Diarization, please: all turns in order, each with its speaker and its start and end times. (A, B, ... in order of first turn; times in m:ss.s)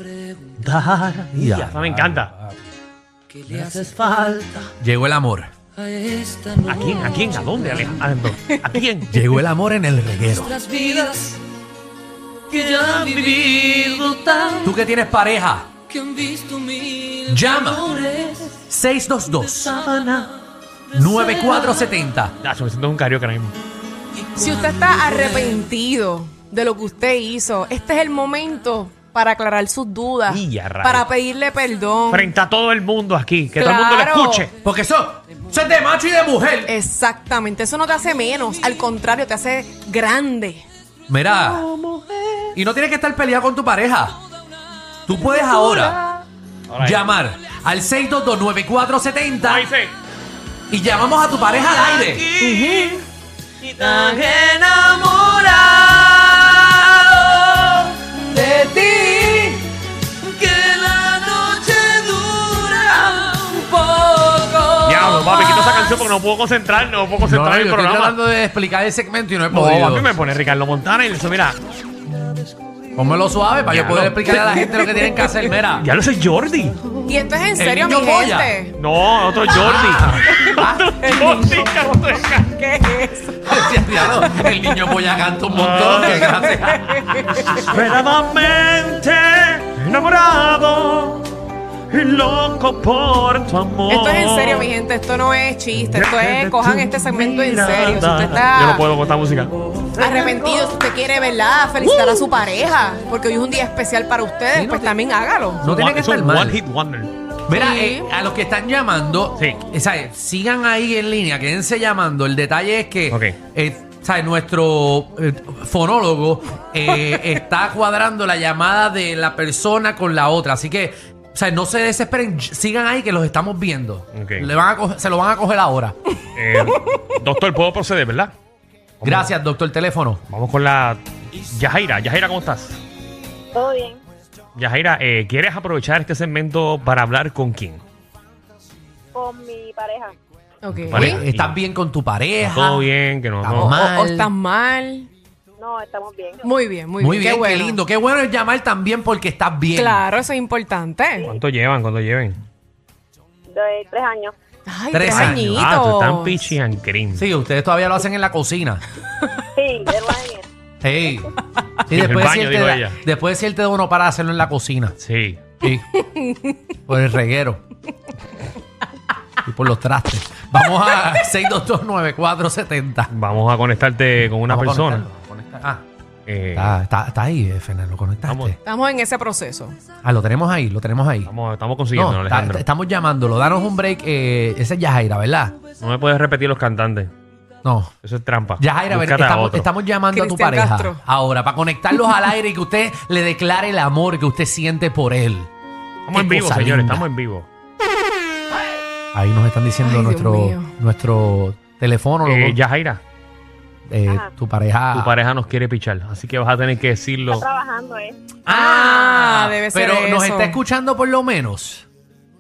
0:00.6-0:02.3 A
0:01.4-0:02.6 B
0:03.5-0:04.7 A
0:04.8-0:05.5 B
0:06.0-0:07.1 C
0:06.6-0:09.1 A
0:09.1-0:10.6 B
0:10.6-0:11.3 C
0:10.7-0:11.2 A
0:12.5-0:14.6 A
0:13.1-0:13.5 C
0:14.6-0:15.7 B
0:16.1-0:17.2 C
0:17.3-0:17.9 B
0:18.7-0:19.8 B
0:19.8-0:20.2 A
0:20.9-0:22.3 B
0:22.4-0:23.5 A
0:24.3-0:32.3 D
0:30.3-0:31.1 A
0:32.1-0:34.5 A
0:33.6-0:34.5 D
0:34.6-0:36.7 B
0:36.7-0:40.6 D
0:41.1-0:41.6 B
0:41.6-0:42.5 A
0:42.5-0:44.2 B
0:45.0-0:46.0 B
0:46.7-0:47.1 A
0:46.8-0:49.7 B
0:49.4-0:49.9 A
0:50.7-0:52.2 B
0:51.6-0:53.0 A
0:52.4-0:53.0 D
0:53.6-0:56.1 A
0:58.4-0:59.6 C
1:00.4-1:05.3 C
1:04.8-1:08.2 A
1:07.2-1:10.1 B
1:09.5-1:11.6 A
1:12.9-1:15.8 B
1:13.7-1:14.9 A
1:15.8-1:16.8 A
1:16.9-1:18.8 D
1:17.6-1:18.5 B
1:18.8-1:22.5 A
1:19.5-1:20.9 B
1:20.3-1:25.0 D
1:23.4-1:27.7 B
1:25.5-1:26.5 A
1:26.2-1:27.6 D
1:27.4-1:31.3 A
1:31.9-1:34.7 A
1:33.9-1:38.8 D
1:35.8-1:40.5 A
1:40.0-1:45.6 D
1:41.8-1:42.2 A
1:44.5-1:45.0 B
1:45.6-1:46.6 B
1:45.7-1:47.1 A
1:47.5-2:06.0 B
1:47.5-1:48.1 D
2:04.1-2:04.5 A
2:06.4-2:08.3 A
2:09.0-2:09.3 A
2:09.0-2:10.2 B
2:10.3-2:12.8 A
2:13.5-2:14.0 E
2:14.6-2:17.8 A
2:19.1-2:20.2 E
2:20.6-2:21.2 D
2:20.7-2:22.9 B
2:20.9-2:21.6 A
2:22.4-2:23.8 A
2:23.4-2:24.3 B
2:23.6-2:25.1 D
2:25.6-2:26.4 E
2:26.4-2:27.8 D
2:27.0-2:30.0 B
2:29.7-2:31.3 D
2:31.2-2:32.4 A
2:33.5-2:34.3 E
2:34.7-2:36.5 D
2:34.9-2:35.7 B
2:35.1-2:37.2 A
2:37.2-2:38.8 B
2:39.6-2:40.5 E
2:40.8-2:41.3 B
2:41.8-2:45.0 B
2:41.9-2:43.0 A
2:45.0-2:45.4 A
2:45.6-2:45.9 B
2:46.0-2:46.5 D
2:46.9-2:47.6 B
2:49.4-2:53.1 B
2:53.1-2:55.0 A
2:54.5-2:55.8 B
2:56.3-2:56.7 A
2:56.5-2:58.6 B
2:58.2-2:58.5 A
2:58.6-2:59.8 D
3:00.0-3:01.3 B
3:01.2-3:02.6 A
3:01.9-3:05.6 B
3:05.8-3:07.1 A
3:07.6-3:07.9 B
3:08.0-3:09.7 A
3:08.6-3:15.5 B
3:10.1-3:11.0 D
3:16.0-3:17.5 A
3:16.1-3:17.0 B
3:19.1-3:22.6 B
3:19.8-3:20.7 D
3:22.2-3:23.0 A
3:23.9-3:25.1 B
3:24.9-3:27.4 A
3:27.3-3:28.2 E
3:28.4-3:31.8 B
3:28.5-3:30.6 D